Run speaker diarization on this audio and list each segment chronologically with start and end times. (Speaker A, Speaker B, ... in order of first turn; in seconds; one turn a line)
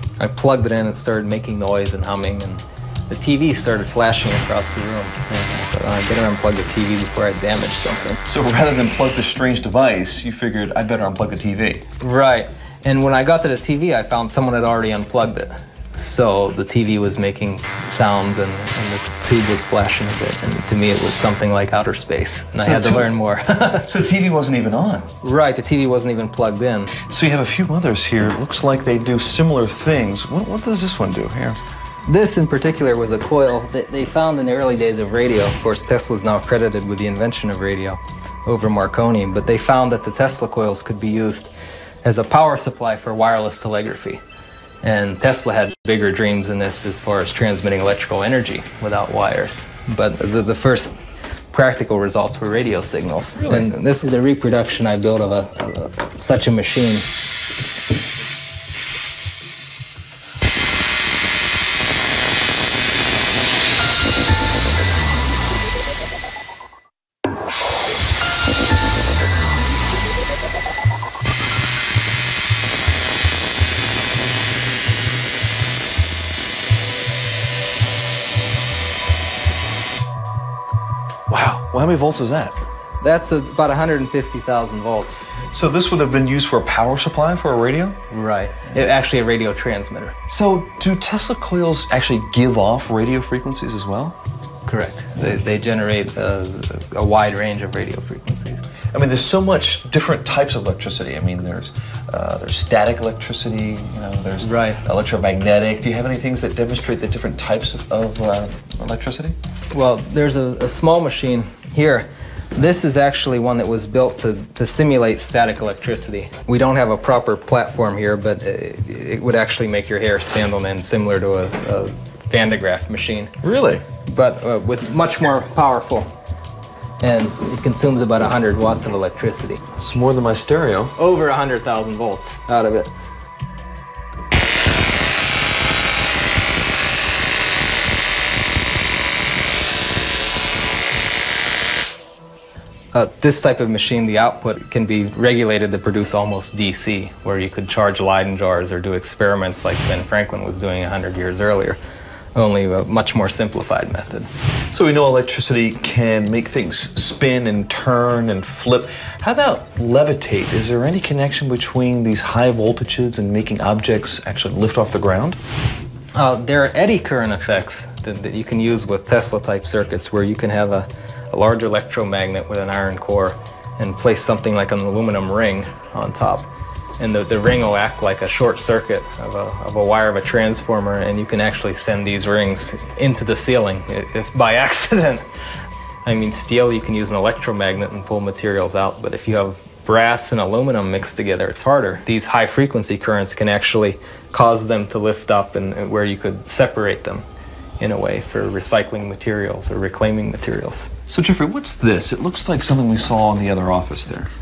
Speaker A: 0.2-8.2
Speaker B: 8.3-11.9
Speaker A: 12.0-23.9
Speaker B: 22.6-23.1
Speaker B: 23.8-25.1
Speaker A: 25.2-27.0
Speaker B: 27.0-31.6
Speaker A: 32.1-41.5
Speaker A: 42.0-44.2
Speaker A: 44.8-57.1
Speaker B: 81.3-82.6
Speaker A: 83.0-85.3
Speaker B: 85.5-88.0
Speaker A: 88.1-90.2
Speaker B: 90.3-94.2
Speaker A: 94.7-98.7
Speaker B: 98.9-109.4
Speaker A: 104.4-104.8
Speaker A: 109.7-123.3
Speaker B: 123.4-123.8
Speaker A: 124.1-126.1
Speaker A: 127.0-129.6
Speaker B: 129.8-131.0
Speaker A: 131.0-132.9
Speaker A: 142.9-151.8
Speaker A: 152.3-154.3
Speaker B: 154.7-165.4
Speaker A: 166.1-185.3
Speaker A: 186.1-197.2
Speaker A: 197.8-200.9
Speaker B: 201.1-204.3